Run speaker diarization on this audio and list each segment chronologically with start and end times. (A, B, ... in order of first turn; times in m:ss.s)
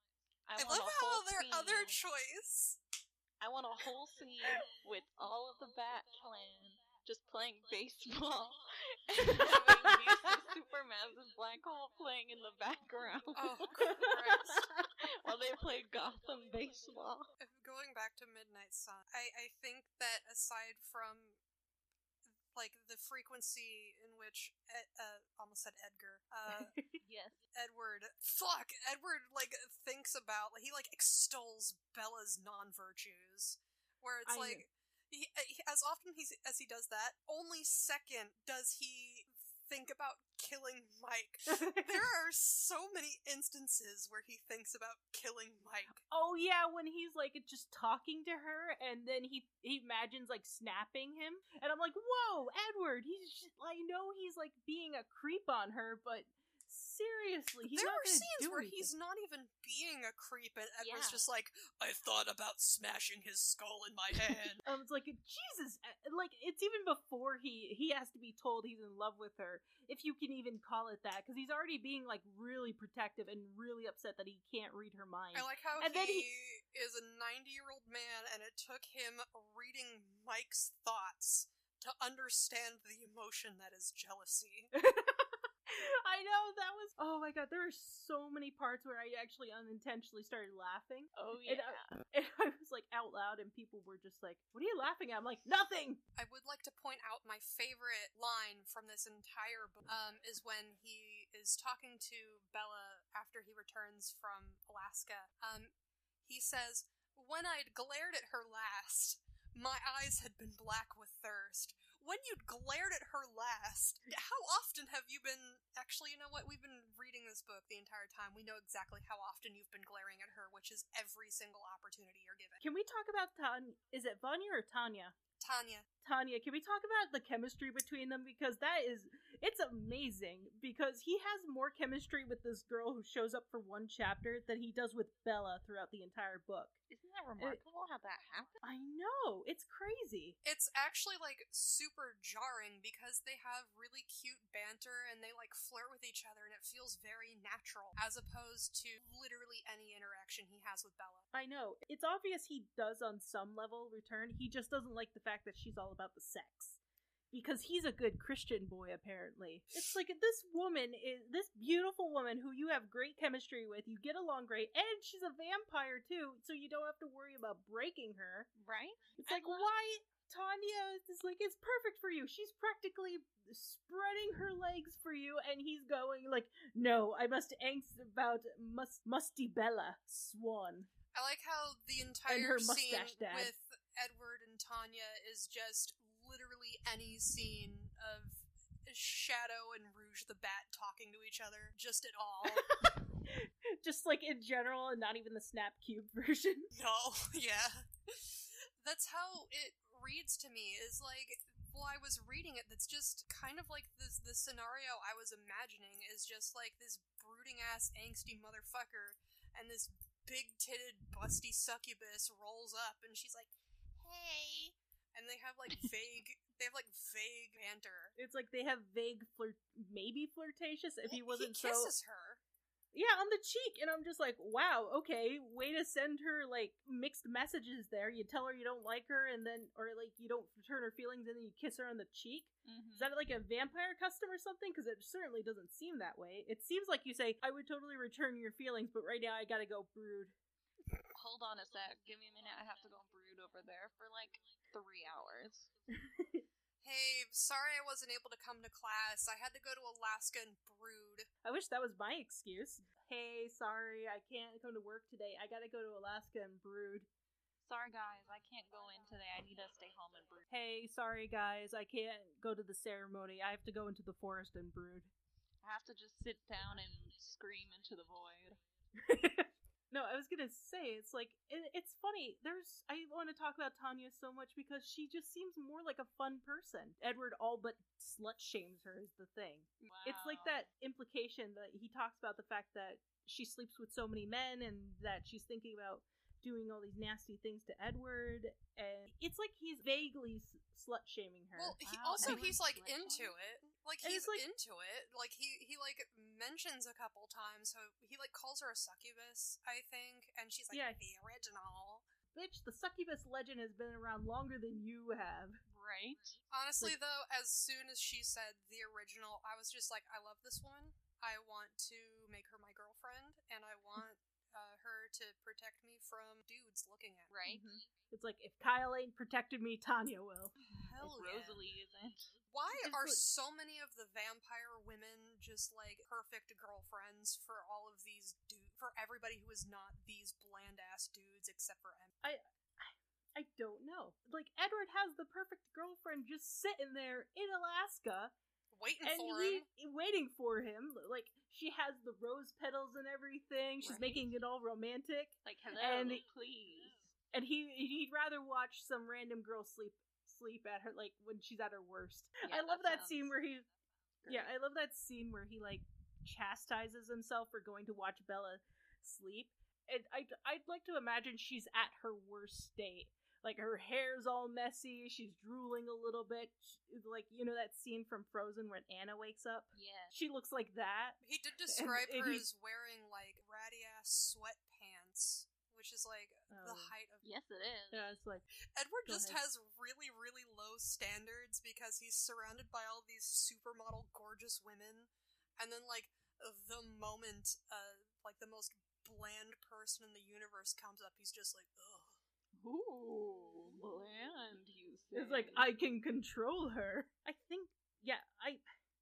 0:00.5-0:02.0 A
0:00.6-0:02.8 B
0:03.4-0:17.3 A
0:09.3-0:10.3 C
0:13.3-0:14.7 B
0:13.8-0:14.3 C
0:17.4-0:21.4 B
0:22.5-0:26.7 B
0:27.0-0:27.4 A
0:27.5-0:46.0 B
0:34.2-0:34.6 C
0:41.5-0:42.0 C
0:46.0-0:58.9 C
0:57.7-1:04.6 B
1:00.8-1:01.2 A
1:04.6-1:16.3 C
1:15.3-1:24.7 B
1:24.7-1:36.0 C
1:31.2-1:31.9 A
1:36.1-1:45.7 B
1:46.2-2:02.6 B
2:02.6-2:05.2 C
2:05.4-2:05.9 B
2:06.0-2:16.7 C
2:16.9-2:18.6 A
2:18.6-2:20.4 C
2:20.4-2:31.3 B
2:31.3-2:36.8 C
2:37.3-2:48.5 C
2:48.6-2:49.6 A
2:49.2-3:00.9 C
3:01.1-3:12.7 B
3:02.3-3:03.5 C
3:12.5-3:16.7 C
3:16.7-3:38.1 B
3:38.2-3:41.9 C
3:41.1-3:42.4 B
3:42.9-4:00.3 C
3:52.6-3:53.1 A
4:01.1-4:05.7 A
4:06.1-4:06.4 C
4:06.8-4:11.3 B
4:11.4-4:17.1 C
4:17.7-4:20.5 A
4:20.5-4:25.1 C
4:25.6-4:28.6 A
4:29.0-4:52.5 C
4:39.8-4:40.6 A
4:51.5-5:02.0 B
4:52.2-4:53.3 A
4:54.0-4:54.4 C
5:00.7-5:01.0 C
5:02.3-5:05.6 C
5:05.7-5:06.4 A
5:06.5-5:17.3 B
5:17.3-5:17.7 A
5:17.4-5:20.5 C
5:20.6-5:22.3 A
5:20.7-5:21.6 B
5:22.5-5:32.1 B
5:22.7-5:23.2 C
5:32.2-5:38.3 C
5:38.7-5:39.6 B
5:39.0-5:46.2 C
5:43.8-5:44.2 A
5:45.4-5:47.1 A
5:47.3-5:53.7 C
5:52.4-5:53.3 A
5:54.2-5:54.5 A
5:54.2-6:11.2 C
6:09.7-6:10.1 A
6:11.2-6:17.2 B
6:11.7-6:12.4 C
6:16.5-6:16.9 C
6:17.2-6:18.1 A
6:17.9-6:18.4 C
6:18.7-6:32.2 B
6:19.1-6:19.4 C
6:32.6-6:35.7 A
6:35.1-6:38.6 C